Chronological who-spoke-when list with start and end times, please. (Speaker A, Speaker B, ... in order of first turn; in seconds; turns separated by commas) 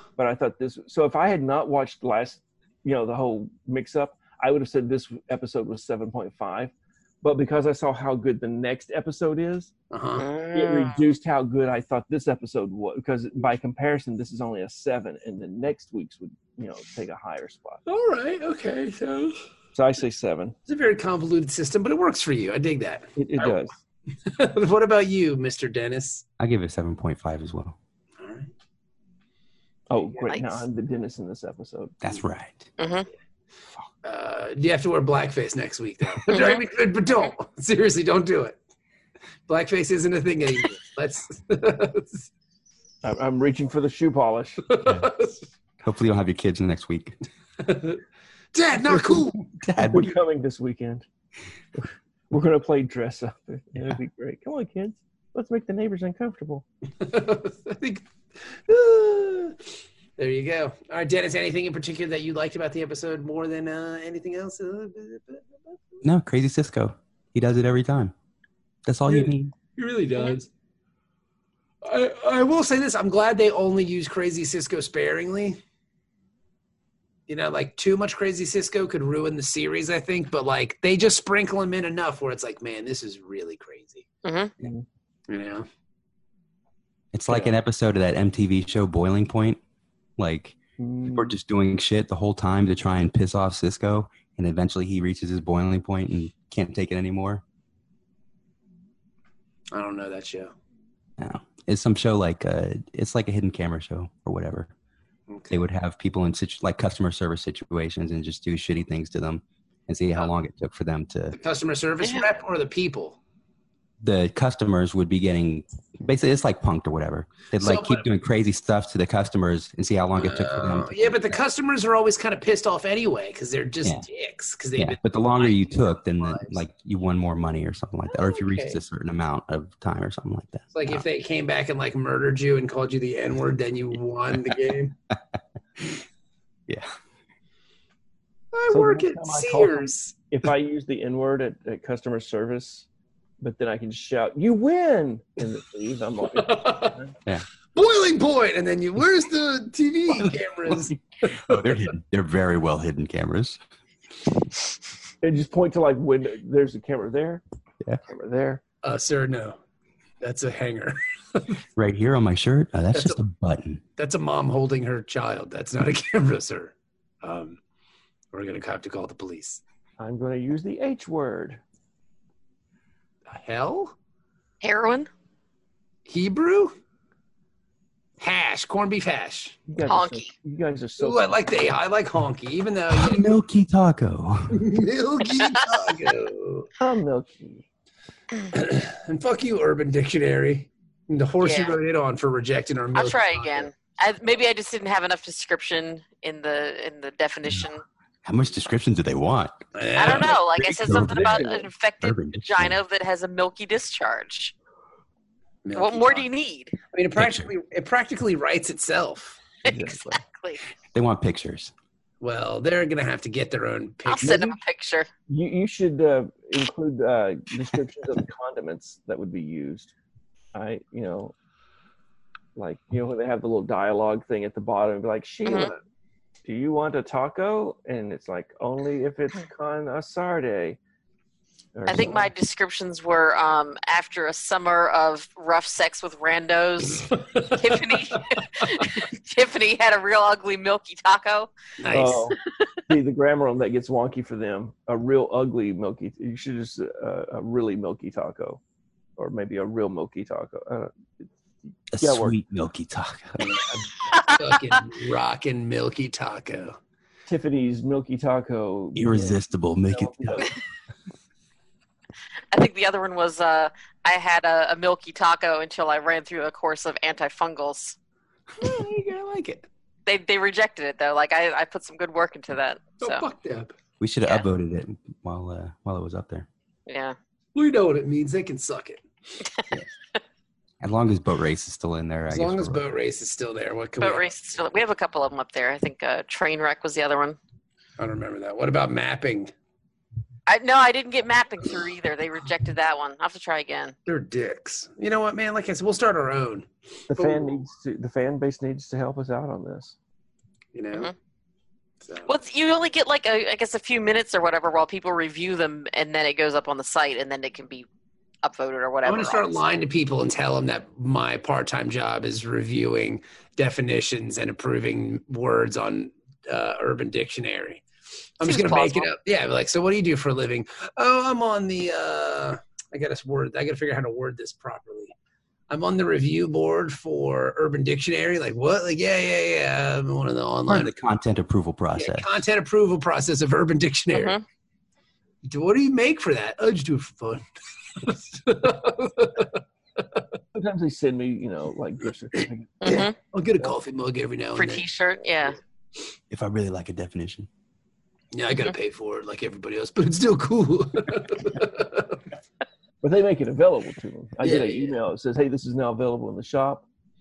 Speaker A: 0.1-9.7, Speaker B: 9.9-10.3, Speaker C: 10.2-11.1, Speaker A: 10.5-17.8, Speaker B: 17.9-19.4, Speaker A: 19.7-20.5, Speaker B: 20.7-23.6, Speaker A: 23.1-23.8, Speaker B: 24.2-26.2, Speaker D: 26.4-27.8, Speaker B: 28.2-28.5, Speaker A: 29.9-32.0, Speaker C: 30.3-30.6, Speaker D: 32.0-32.7, Speaker C: 32.8-33.1, Speaker B: 34.0-38.6, Speaker C: 36.3-36.6, Speaker B: 39.5-42.3, Speaker A: 43.0-44.6, Speaker B: 44.6-45.5, Speaker D: 44.8-45.1, Speaker D: 45.8-47.2, Speaker B: 47.6-48.0, Speaker B: 48.5-49.4, Speaker D: 48.9-50.1, Speaker A: 49.8-51.0, Speaker A: 51.7-56.6, Speaker B: 57.0-59.6, Speaker B: 60.2-65.8, Speaker D: 66.0-68.1, Speaker D: 68.8-69.5, Speaker B: 69.0-70.5, Speaker B: 71.8-75.6, Speaker B: 77.3-84.0, Speaker C: 84.2-84.5, Speaker B: 85.3-85.7, Speaker D: 87.1-89.6, Speaker A: 87.3-87.5, Speaker D: 90.2-97.4, Speaker A: 90.8-91.3, Speaker B: 99.7-100.5, Speaker D: 101.2-104.7, Speaker B: 105.3-105.6, Speaker D: 105.5-111.4, Speaker B: 111.3-113.2, Speaker C: 112.0-112.3, Speaker D: 114.0-121.4, Speaker B: 117.6-118.0, Speaker B: 120.2-126.6, Speaker D: 124.8-131.0, Speaker B: 128.1-128.8, Speaker B: 130.7-134.9, Speaker D: 135.8-136.0, Speaker B: 138.5-140.2, Speaker A: 138.7-142.9, Speaker A: 143.4-147.1, Speaker B: 146.3-147.0, Speaker B: 147.7-151.8, Speaker D: 151.3-153.6, Speaker A: 155.2-157.4, Speaker A: 158.0-158.6, Speaker B: 158.8-159.6, Speaker B: 160.2-161.6, Speaker D: 161.8-163.8, Speaker B: 162.9-163.2, Speaker B: 164.0-167.6, Speaker B: 168.3-169.6, Speaker A: 170.0-171.6, Speaker B: 173.3-173.9, Speaker C: 174.6-175.1, Speaker B: 176.1-176.7, Speaker B: 178.2-179.6, Speaker A: 179.7-181.6, Speaker C: 179.8-180.3, Speaker B: 181.0-183.2, Speaker D: 182.9-184.7, Speaker B: 184.5-186.7, Speaker A: 186.8-187.6, Speaker B: 188.5-193.7, Speaker C: 191.4-191.8, Speaker C: 192.9-197.8, Speaker D: 198.2-202.8, Speaker B: 199.7-200.4, Speaker C: 200.0-204.5, Speaker A: 200.9-201.7, Speaker B: 205.6-206.3, Speaker C: 205.7-206.8, Speaker B: 206.9-209.4, Speaker D: 207.1-207.5, Speaker A: 209.6-210.2, Speaker C: 209.7-210.6, Speaker D: 210.9-211.7, Speaker B: 212.2-214.5, Speaker C: 214.1-215.1, Speaker A: 215.3-219.9, Speaker A: 220.5-221.3, Speaker A: 222.5-225.8, Speaker C: 225.4-225.7, Speaker A: 226.4-230.8, Speaker A: 231.7-232.3, Speaker C: 231.9-241.5, Speaker B: 237.1-238.2, Speaker B: 241.8-242.3, Speaker A: 241.9-242.4, Speaker A: 242.9-248.6, Speaker A: 249.2-250.9, Speaker D: 251.9-253.4, Speaker A: 252.0-252.4, Speaker B: 253.4-256.8, Speaker C: 254.1-254.4, Speaker A: 257.2-260.5, Speaker D: 258.9-260.5, Speaker C: 262.5-267.9, Speaker B: 268.6-269.7, Speaker C: 270.1-273.2, Speaker B: 273.0-273.7, Speaker D: 274.0-276.5, Speaker C: 276.9-277.1, Speaker B: 277.5-279.0, Speaker D: 280.8-282.8, Speaker B: 282.3-284.2, Speaker C: 284.0-287.4, Speaker B: 288.0-289.5, Speaker C: 290.5-293.9, Speaker B: 294.1-297.6, Speaker A: 297.1-299.9, Speaker B: 300.7-301.1, Speaker B: 302.0-302.3, Speaker C: 302.3-307.9, Speaker C: 308.4-309.6, Speaker B: 309.1-317.8, Speaker B: 318.4-325.1, Speaker C: 318.4-319.1, Speaker B: 325.7-330.9, Speaker D: 330.7-332.3, Speaker B: 331.9-334.4, Speaker C: 334.1-334.4, Speaker B: 335.4-337.4, Speaker B: 338.0-339.6, Speaker A: 340.5-343.1, Speaker C: 342.8-343.1, Speaker B: 342.9-344.9, Speaker C: 344.6-345.6, Speaker D: 346.3-347.5, Speaker B: 348.3-352.2, Speaker A: 353.0-356.8, Speaker B: 354.4-355.0